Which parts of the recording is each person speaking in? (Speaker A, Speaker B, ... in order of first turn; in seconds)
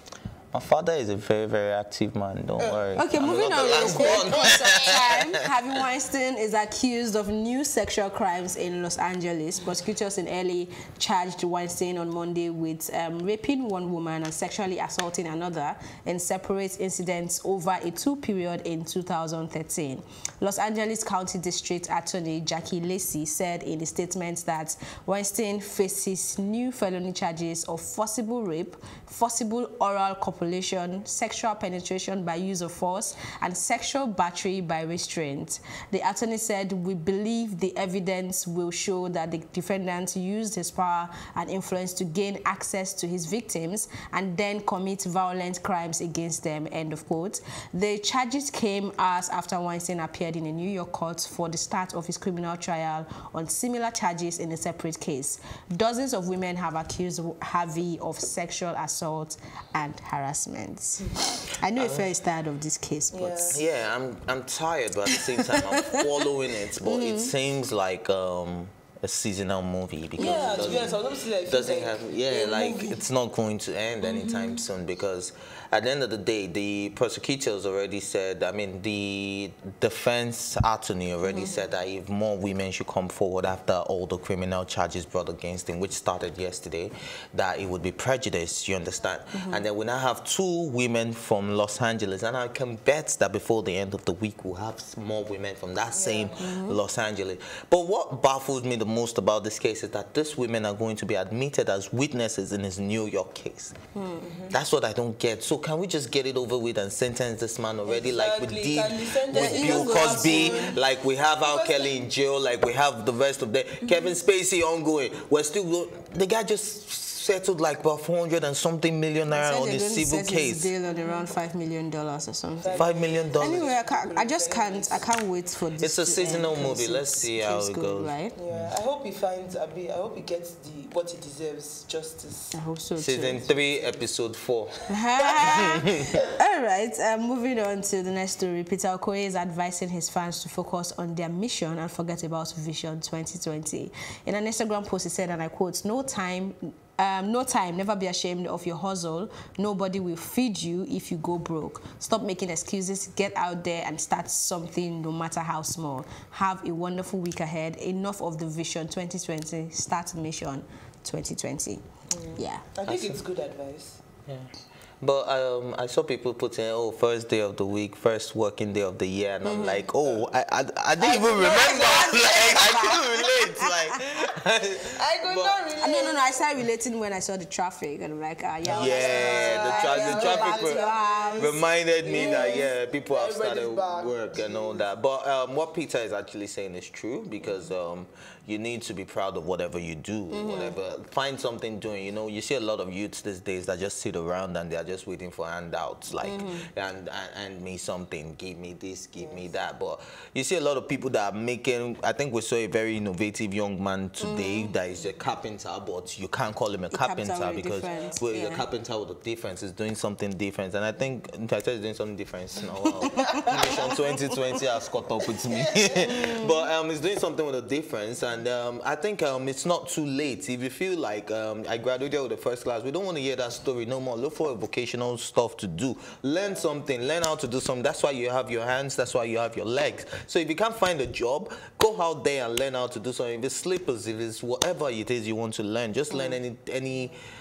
Speaker A: 0.5-5.0, 61.8-62.0, 63.5-103.8, 104.5-120.7, 122.8-123.7, 125.8-128.7, 133.0-136.2, 162.9-163.2, 165.0-175.6, 178.7-180.8, 181.4-237.1
Speaker B: 3.0-63.6, 65.1-66.0, 66.8-67.3, 70.2-70.9, 74.0-74.6, 81.2-81.7, 89.3-89.7, 96.4-96.8, 104.0-104.3, 109.3-110.7, 119.3-128.4, 132.5-133.5, 134.9-161.8, 162.4-162.7, 169.4-169.8, 171.8-173.9, 175.8-182.7, 190.3-190.8, 196.2-196.7, 204.2-204.8, 206.9-208.7, 213.0-213.8, 216.0-216.6, 236.1-236.4
Speaker C: 3.6-4.4, 63.1-63.6, 70.2-73.0, 95.9-96.4, 104.2-104.6, 107.9-110.8, 111.4-111.9, 113.8-114.1, 120.9-121.3, 122.6-125.1, 128.4-132.6, 133.4-134.0, 162.1-164.0, 171.0-173.0, 174.9-176.4, 178.6-184.8, 187.4-187.7, 199.2-199.5, 207.8-208.2, 215.5-216.2